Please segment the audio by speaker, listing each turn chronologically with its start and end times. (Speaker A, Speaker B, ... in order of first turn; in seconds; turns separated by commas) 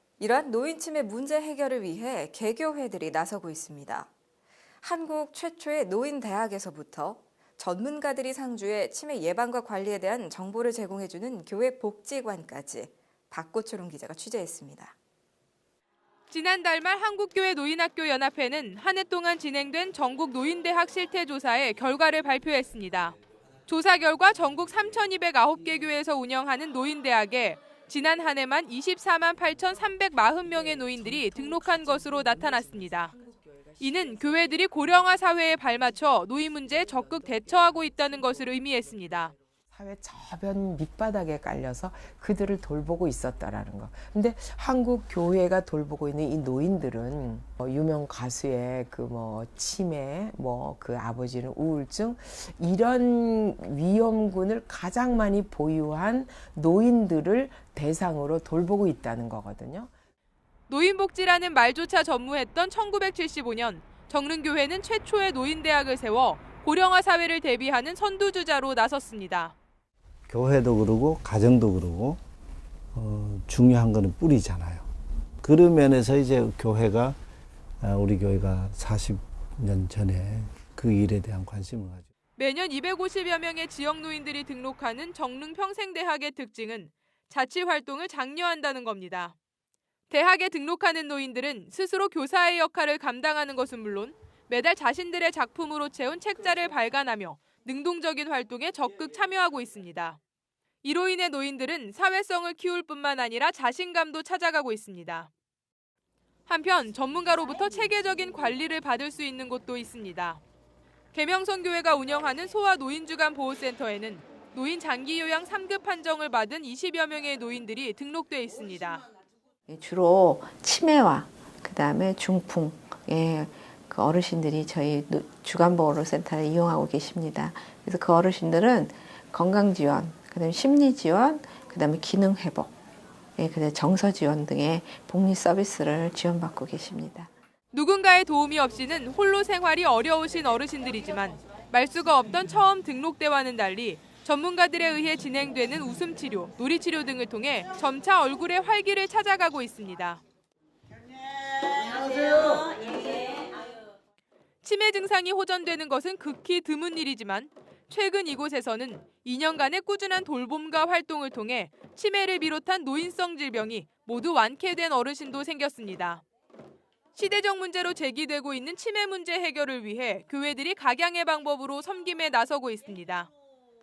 Speaker A: 0.2-4.1, Speaker A: 4.8-14.9, Speaker B: 16.3-33.1, Speaker B: 33.8-39.4, Speaker C: 39.7-59.9, Speaker B: 60.7-69.5, Speaker D: 70.3-72.2, Speaker D: 72.9-74.9, Speaker D: 75.4-77.2, Speaker D: 77.8-82.1, Speaker B: 82.4-89.3, Speaker B: 90.1-100.2, Speaker B: 100.8-105.3, Speaker B: 106.5-110.4, Speaker B: 111.1-119.0, Speaker E: 119.7-132.7, Speaker E: 133.4-137.3, Speaker B: 137.7-150.2, Speaker B: 152.0-153.2, Speaker B: 154.6-166.2, Speaker B: 167.2-173.3